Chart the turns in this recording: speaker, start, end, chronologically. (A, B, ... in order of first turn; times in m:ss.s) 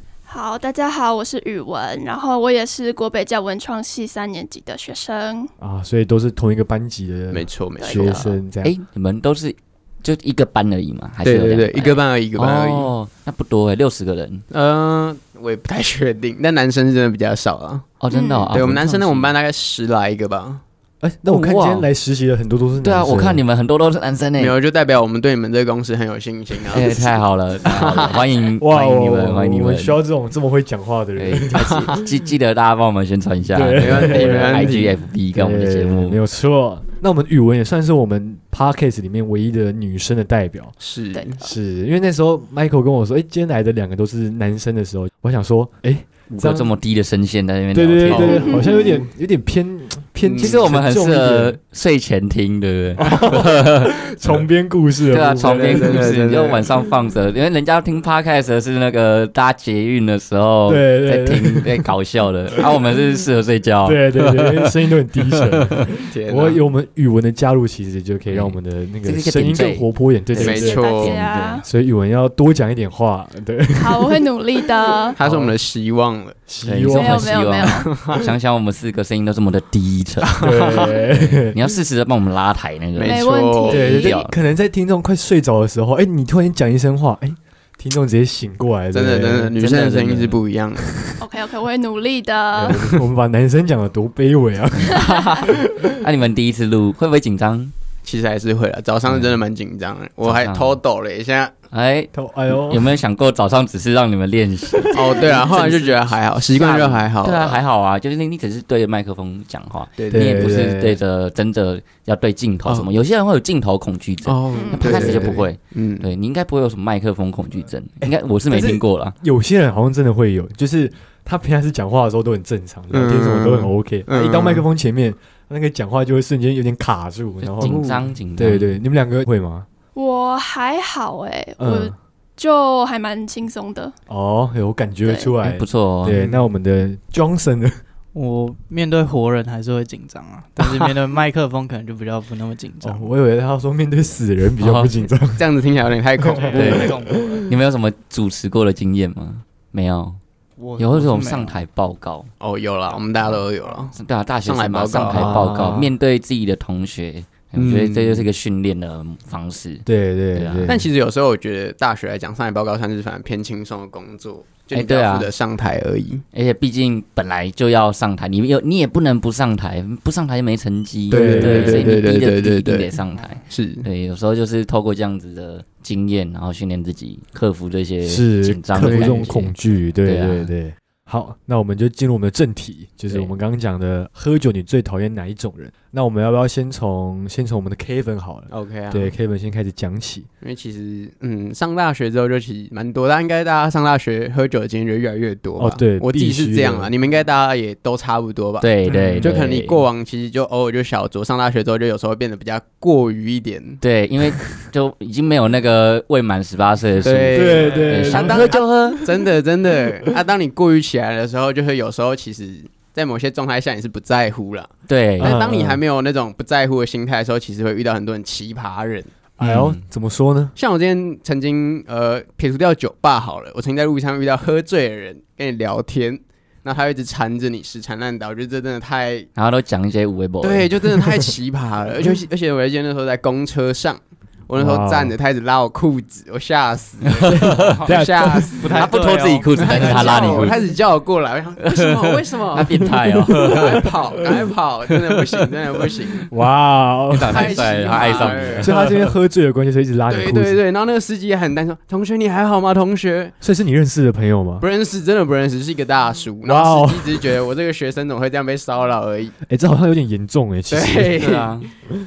0:00.3-0:05.5 A
0:05.6-0:08.7 B
0:07.3-0:08.3 C
0:07.8-0:08.4 A
0:08.6-0:14.4 D
0:11.2-0:12.9 C
0:14.5-0:17.9 C
0:18.0-0:19.3 D
0:18.1-0:18.5 A
0:18.5-0:20.6 C
0:21.0-0:23.4 B
0:21.2-0:21.9 D
0:22.8-0:24.6 D
0:24.4-0:28.3 C
0:26.7-0:30.0 D
0:28.6-0:32.0 B
0:31.2-0:36.2 D
0:33.5-0:40.8 B
0:33.8-0:34.9 C
0:40.8-0:41.4 C
0:41.1-0:41.5 A
0:41.4-0:46.7 B
0:46.3-0:48.5 D
0:47.7-0:51.6 B
0:48.1-0:48.9 C
0:48.4-0:49.0 A
0:50.2-0:50.6 C
0:50.4-0:53.9 D
0:53.0-0:56.1 B
0:55.1-1:04.7 D
0:55.4-0:56.7 C
1:00.7-1:01.9 B
1:03.8-1:10.9 B
1:06.1-1:06.6 C
1:08.3-1:11.6 D
1:10.4-1:11.2 C
1:10.5-1:11.6 A
1:11.6-1:15.6 B
1:13.7-1:15.2 A
1:15.2-1:16.4 C
1:16.5-1:17.6 B
1:16.6-1:24.4 D
1:16.9-1:17.9 A
1:17.8-1:18.3 C
1:20.4-1:20.9 C
1:20.4-1:21.6 B
1:23.0-1:24.0 C
1:23.0-1:24.2 A
1:23.7-1:29.6 B
1:28.9-1:30.9 C
1:29.6-1:30.4 D
1:30.8-1:31.2 B
1:31.2-1:33.0 A
1:32.5-1:36.0 B
1:34.9-1:35.4 A
1:36.0-1:37.7 D
1:38.0-1:41.5 C
1:39.0-1:39.4 D
1:40.2-1:40.8 D
1:41.7-1:59.2 D
1:42.1-1:42.9 B
1:44.8-1:45.4 A
1:44.9-1:47.6 C
1:50.0-1:50.7 C
1:50.1-1:51.0 B
1:54.2-1:56.1 C
1:54.5-1:55.0 A
1:54.8-1:55.4 B
1:58.5-2:07.8 B
2:02.9-2:04.6 C
2:07.4-2:08.8 D
2:07.6-2:08.1 C
2:08.4-2:09.7 B
2:09.9-2:13.9 A
2:11.6-2:11.9 B
2:14.1-2:17.8 B
2:15.0-2:15.3 A
2:15.4-2:16.2 D
2:16.1-2:16.5 C
2:18.1-2:23.1 E
2:20.6-2:20.9 B
2:22.8-2:25.4 B
2:24.6-2:24.9 D
2:25.4-2:27.0 C
2:26.2-2:27.4 B
2:26.5-2:27.4 E
2:26.5-2:30.2 D
2:30.6-2:31.6 E
2:30.8-2:32.3 D
2:32.4-2:33.9 C
2:33.9-2:40.8 D
2:34.4-2:35.8 C
2:35.1-2:35.9 B
2:37.5-2:38.3 C
2:39.8-2:40.9 B
2:40.6-2:46.2 C
2:44.7-2:45.3 D
2:46.3-3:00.5 D
2:51.1-2:52.0 B
2:51.1-2:52.9 C
2:53.5-2:53.8 C
2:58.0-3:10.3 B
2:58.7-2:59.2 C
3:03.1-3:03.3 D
3:08.5-3:09.1 C
3:10.4-3:23.8 C
3:15.6-3:16.9 B
3:18.6-3:19.8 D
3:18.8-3:19.5 B
3:23.8-3:29.0 D
3:27.0-3:39.1 C
3:27.3-3:29.1 B
3:34.9-3:35.4 D
3:35.2-3:35.8 B
3:39.4-3:40.5 B
3:39.4-3:39.8 D
3:40.6-3:49.3 C
3:49.4-3:51.0 D
3:50.4-3:58.9 C
3:54.5-3:55.1 B
3:57.0-4:00.6 D
3:57.2-3:58.6 B
3:58.6-4:00.6 E
3:59.5-4:06.2 C
4:01.6-4:03.9 D
4:02.8-4:03.9 B
4:06.3-4:07.6 B
4:07.1-4:09.0 D
4:07.2-4:08.9 C
4:08.6-4:10.6 B
4:10.1-4:13.3 C
4:13.4-4:14.6 B
4:14.6-4:19.3 C
4:16.4-4:17.3 B
4:19.5-4:21.3 B
4:20.7-4:21.7 C
4:21.2-4:21.7 D